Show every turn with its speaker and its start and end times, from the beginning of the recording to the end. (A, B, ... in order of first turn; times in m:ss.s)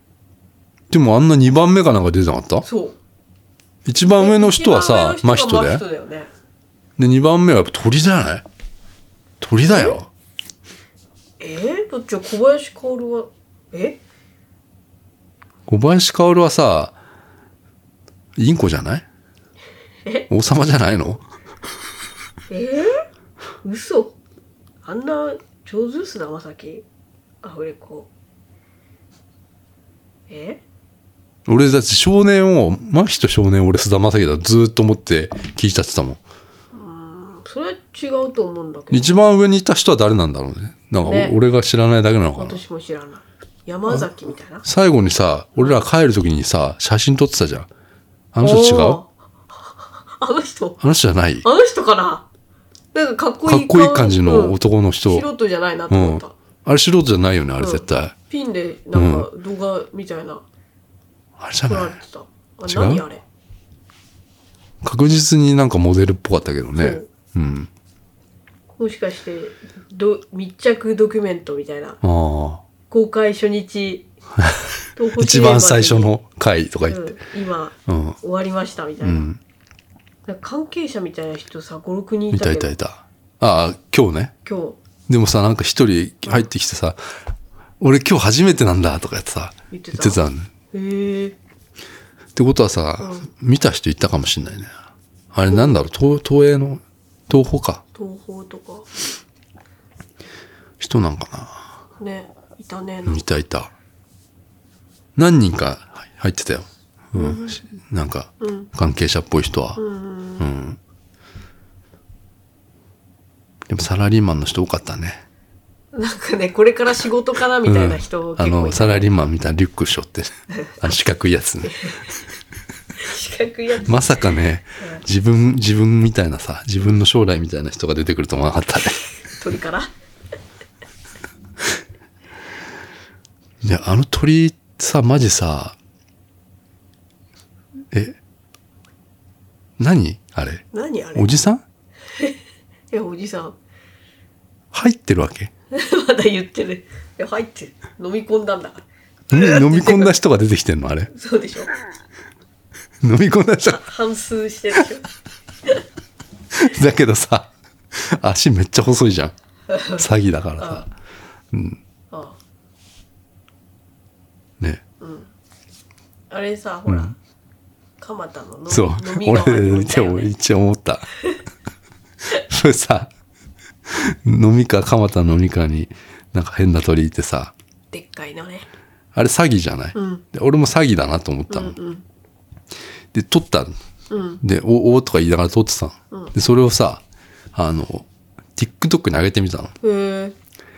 0:00.9-0:02.7 A
0:02.6-0:03.0 B
0:03.8-0:05.8 A
0:04.2-0:06.3 B
0:07.0-0:08.4 A
0:09.4-0:10.1 A
0:09.6-0:10.0 B
0:11.4-0:14.0 B
0:15.7-0:17.0 A
0:18.4-0:19.0 A
0:20.3-0:21.2 A
0:22.5-0:23.0 B
0:23.6-0:24.2 B
0:24.8-0:26.8 B
0:27.4-0:28.1 B
0:30.3-0:30.6 B
0:31.5-0:36.2 A
0:36.7-0:39.2 B
0:38.9-0:42.6 A
0:41.0-0:41.4 B
0:42.4-0:44.6 B
0:44.6-0:47.7 A
0:45.6-0:45.8 B
0:48.3-0:49.0 A
0:48.4-0:50.8 B
0:50.8-0:51.5 A
0:51.4-0:52.3 B
0:52.9-0:56.3 B
0:53.4-0:55.3 A
0:55.9-0:58.2 A
0:57.6-1:00.4 B
0:58.9-0:59.3 A
1:01.4-1:02.0 A
1:01.6-1:03.2 B
1:02.7-1:03.0 A
1:04.8-1:07.7 A
1:06.8-1:07.1 B
1:08.8-1:12.0 B
1:12.0-1:12.6 A
1:12.9-1:14.1 B
1:14.4-1:17.2 A
1:15.0-1:16.1 B
1:16.9-1:19.3 B
1:17.9-1:18.2 A
1:19.0-1:19.4 A
1:20.3-1:22.7 B
1:22.3-1:24.3 A
1:24.4-1:24.8 B
1:25.1-1:27.0 A
1:27.8-1:30.5 A
1:29.7-1:31.4 B
1:32.4-1:34.7 A
1:33.0-1:33.3 B
1:35.3-1:37.8 A
1:35.5-1:35.8 B
1:37.9-1:38.9 B
1:40.8-1:41.7 A
1:42.0-1:43.3 B
1:43.1-1:43.7 A
1:45.2-1:49.8 A
1:47.2-1:47.6 B
1:48.4-1:48.7 B
1:49.8-1:50.5 B
1:50.4-1:50.8 A
1:53.7-1:55.2 A
1:55.9-1:59.1 B
1:57.6-2:01.9 A
2:00.5-2:00.8 B
2:01.7-2:02.1 B
2:03.0-2:04.1 B
2:03.9-2:09.0 A
2:09.3-2:09.9 B
2:13.6-2:15.8 A
2:17.9-2:18.2 A
2:19.8-2:21.6 A
2:20.7-2:21.3 B
2:22.9-2:23.6 B
2:24.7-2:25.5 A
2:25.7-2:30.2 B
2:29.3-2:31.1 A
2:31.1-2:31.7 B
2:33.0-2:33.8 A
2:33.7-2:35.1 B
2:36.5-2:39.3 A
2:39.7-2:40.1 B
2:40.0-2:40.9 A
2:40.6-2:40.8 B
2:41.5-2:41.8 A
2:42.1-2:42.4 B
2:45.0-2:45.3 B
2:46.3-2:47.2 B
2:46.9-2:47.1 A
2:48.0-2:50.3 B
2:48.7-2:51.1 A
2:52.3-2:53.1 A
2:53.9-2:57.5 A
2:57.9-2:58.7 B
2:59.1-3:01.8 A
2:59.9-3:00.2 B
3:01.5-3:02.0 B
3:03.1-3:03.7 A
3:04.1-3:04.4 B
3:04.4-3:07.0 A
3:07.5-3:09.8 A
3:09.8-3:10.4 B